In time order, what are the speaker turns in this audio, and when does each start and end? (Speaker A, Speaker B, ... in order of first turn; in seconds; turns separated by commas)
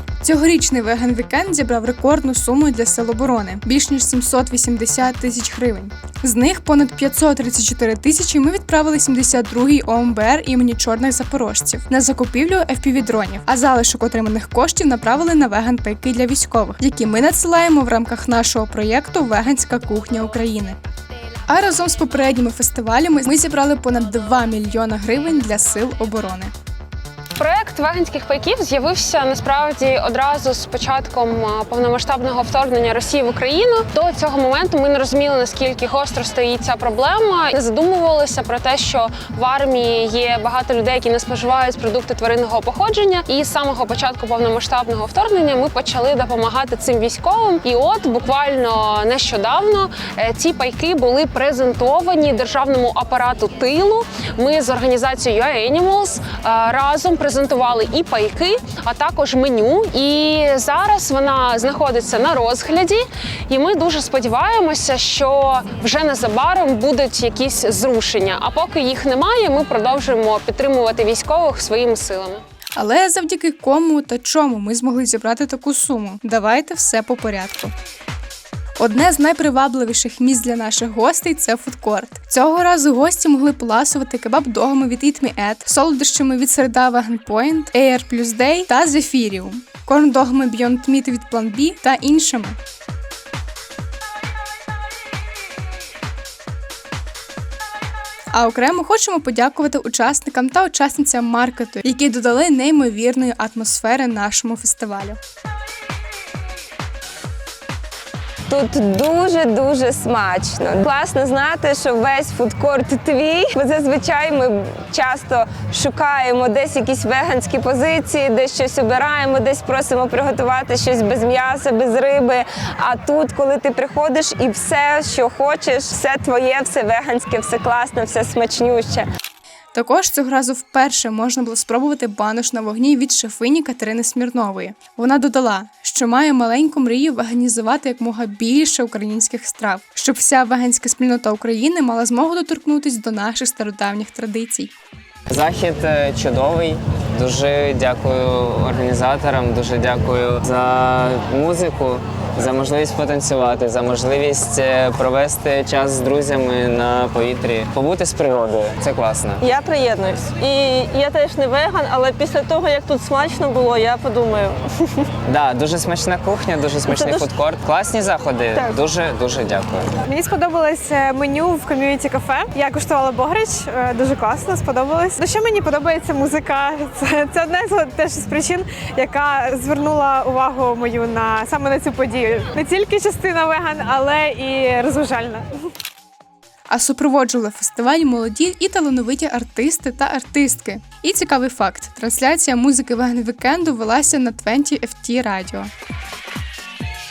Speaker A: 0.2-20.8, Speaker A: 21.5-26.5, Speaker B: 27.4-72.4, Speaker A: 72.8-77.7, Speaker A: 78.8-92.6, Speaker A: 98.3-105.2, Speaker C: 108.5-129.1, Speaker A: 129.7-144.7, Speaker D: 145.3-159.4, Speaker E: 159.4-164.6, Speaker D: 165.2-169.9, Speaker E: 166.9-167.3, Speaker E: 168.5-168.8, Speaker F: 170.0-185.4, Speaker A: 186.7-195.7